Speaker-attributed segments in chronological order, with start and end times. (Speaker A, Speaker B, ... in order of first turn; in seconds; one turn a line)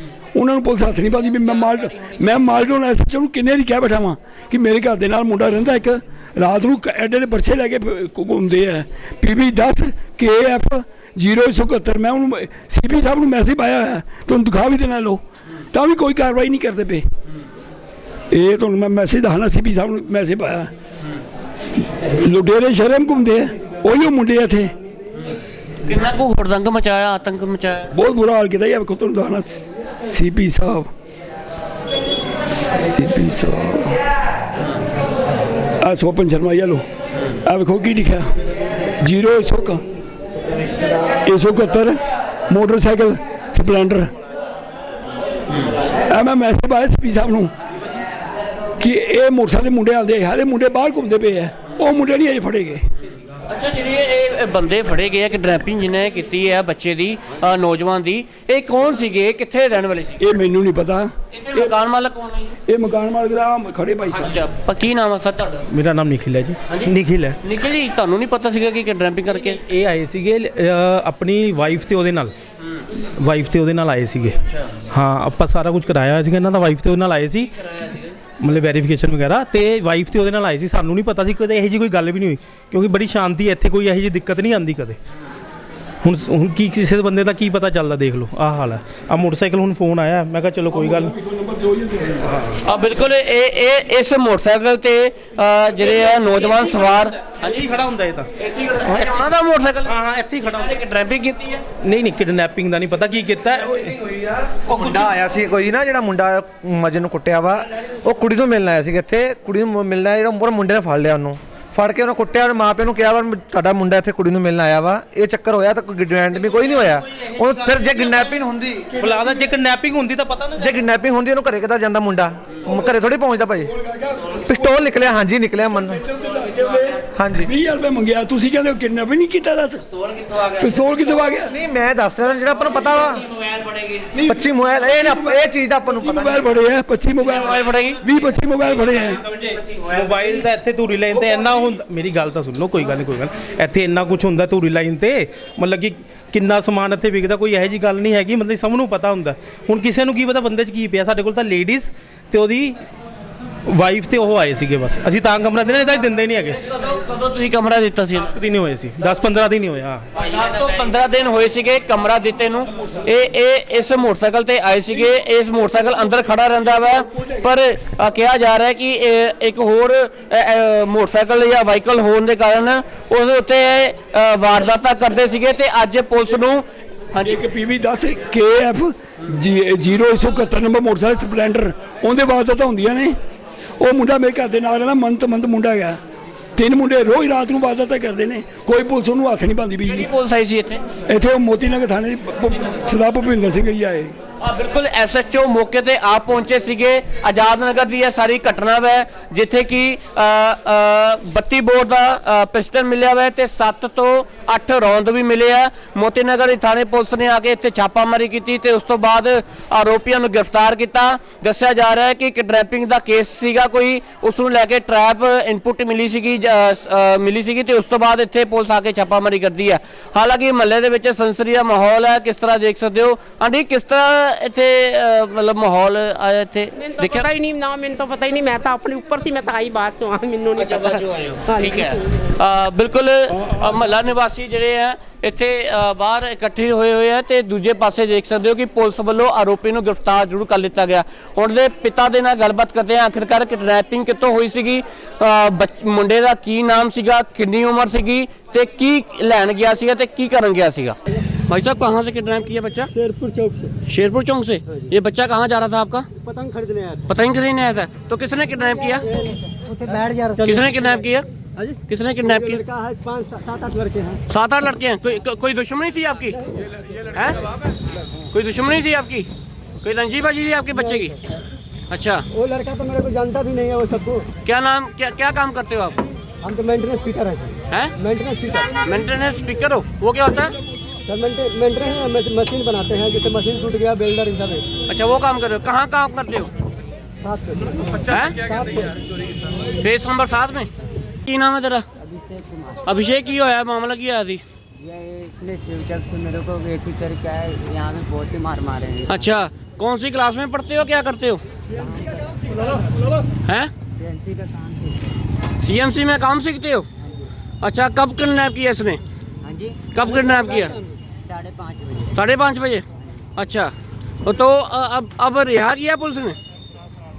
Speaker A: 0.3-15.2
Speaker A: 15.7-17.0
Speaker A: 18.3-20.7
Speaker A: 22.2-24.7
Speaker B: 25.8-27.9
Speaker A: 27.9-30.9
Speaker A: 32.8-34.0
Speaker A: 35.8-36.8
Speaker A: 37.5-38.3
Speaker A: 39.0-39.8
Speaker A: 41.2-42.0
Speaker A: 42.5-44.1
Speaker A: 46.1-47.5
Speaker A: 48.8-52.8
Speaker B: 53.5-60.2
Speaker A: 60.2-61.7
Speaker B: 61.3-62.6
Speaker A: 62.7-64.3
Speaker B: 64.1-65.7
Speaker C: 65.7-67.3
Speaker B: 66.7-69.6
Speaker C: 69.5-72.3
Speaker C: 73.2-74.3
Speaker C: 74.9-77.5
Speaker B: 77.6-78.1
Speaker C: 78.4-85.0
Speaker C: 86.0-91.2
Speaker A: 90.7-92.2
Speaker B: 92.6-97.7
Speaker C: 97.4-98.3
Speaker B: 98.4-100.0
Speaker C: 98.9-99.2
Speaker C: 99.8-100.7
Speaker B: 100.5-101.6
Speaker C: 101.8-104.0
Speaker D: 104.0-118.9
Speaker C: 117.4-118.1
Speaker A: 119.0-119.4
Speaker C: 119.0-120.7
Speaker D: 120.6-123.7
Speaker A: 123.8-124.7
Speaker D: 124.5-126.0
Speaker A: 125.9-129.8
Speaker D: 127.2-127.5
Speaker A: 130.4-131.5
Speaker D: 131.5-133.3
Speaker A: 134.1-137.4
Speaker D: 134.3-136.5
Speaker B: 137.2-138.1
Speaker A: 138.0-139.2
Speaker C: 139.3-152.8
Speaker C: 153.7-156.6
Speaker B: 156.8-158.3
Speaker C: 158.3-160.0
Speaker B: 160.2-177.4
Speaker A: 177.2-183.1
Speaker A: 183.8-186.0
Speaker A: 186.6-190.1
Speaker B: 189.8-190.8
Speaker A: 191.1-194.2
Speaker B: 194.4-227.3
Speaker E: 226.8-231.8
Speaker B: 230.6-251.0
Speaker B: 251.5-252.9
Speaker F: 253.0-253.7
Speaker B: 253.8-256.1
Speaker F: 256.2-257.0
Speaker B: 257.0-259.2
Speaker F: 259.2-260.6
Speaker B: 260.4-261.2
Speaker B: 261.8-262.6
Speaker F: 262.3-264.2
Speaker B: 264.3-266.4
Speaker B: 267.1-267.4
Speaker B: 268.3-269.3
Speaker B: 269.8-271.2
Speaker B: 271.9-272.2
Speaker F: 272.3-274.2
Speaker B: 274.4-276.0
Speaker F: 276.4-278.7
Speaker B: 278.8-280.5
Speaker F: 281.1-284.7
Speaker B: 284.8-286.5
Speaker F: 287.2-287.9
Speaker B: 288.0-288.4
Speaker F: 288.5-289.0
Speaker B: 289.8-290.7
Speaker B: 291.2-291.9
Speaker G: 292.0-292.8
Speaker B: 292.9-294.4
Speaker G: 294.8-299.2
Speaker B: 299.1-301.4
Speaker G: 301.8-302.3
Speaker B: 303.5-303.7
Speaker G: 304.0-304.9
Speaker B: 305.6-306.9
Speaker B: 307.6-309.0
Speaker G: 309.4-309.9
Speaker B: 309.9-310.7
Speaker G: 311.3-312.1
Speaker B: 312.1-312.9
Speaker B: 313.4-313.7
Speaker B: 314.2-316.4